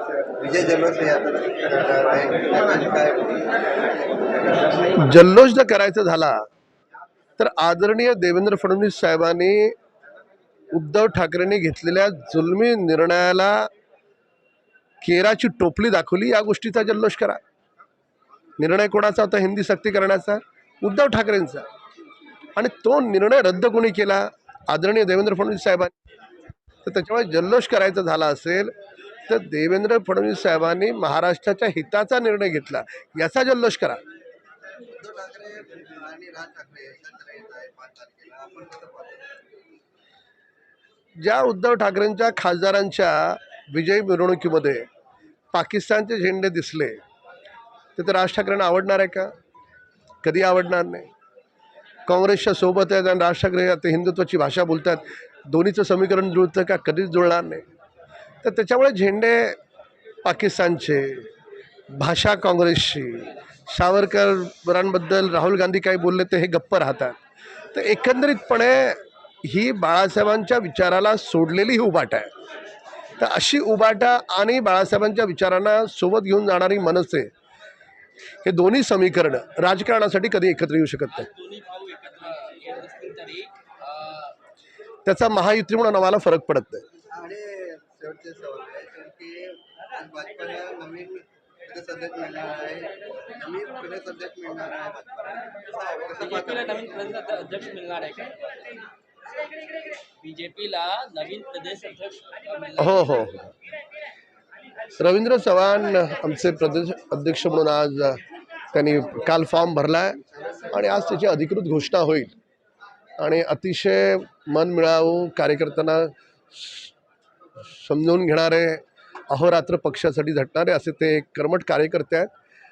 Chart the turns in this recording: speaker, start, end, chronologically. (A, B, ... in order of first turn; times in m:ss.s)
0:00.4-0:04.6 A
0:05.0-0:06.4 B
0:07.4-0:09.7 B
0:10.7-0:13.7 B
0:15.0-0:17.4 B
0:18.6-0:21.6 B
0:22.6-0:25.9 B
0:26.8-0:28.7 B
0:29.3-0:34.0 B
0:34.9-0:39.3 A
0:41.2-0:44.8 B
0:45.5-0:47.0 B
0:48.0-0:49.3 B
0:50.2-0:51.1 B
0:52.0-0:57.6 B
0:58.4-0:59.6 B
1:00.2-1:01.3 B
1:01.9-1:07.2 B
1:07.7-1:12.3 B
1:13.2-1:17.3 B
1:18.4-1:21.3 B
1:21.1-1:24.4 C
1:25.0-1:26.8 B
1:27.1-1:36.9 A
1:36.2-1:38.6 C
1:40.1-1:43.0 C
1:42.8-1:43.5 B
1:45.0-1:52.3 B
1:53.2-1:56.9 B
1:57.6-2:02.3 B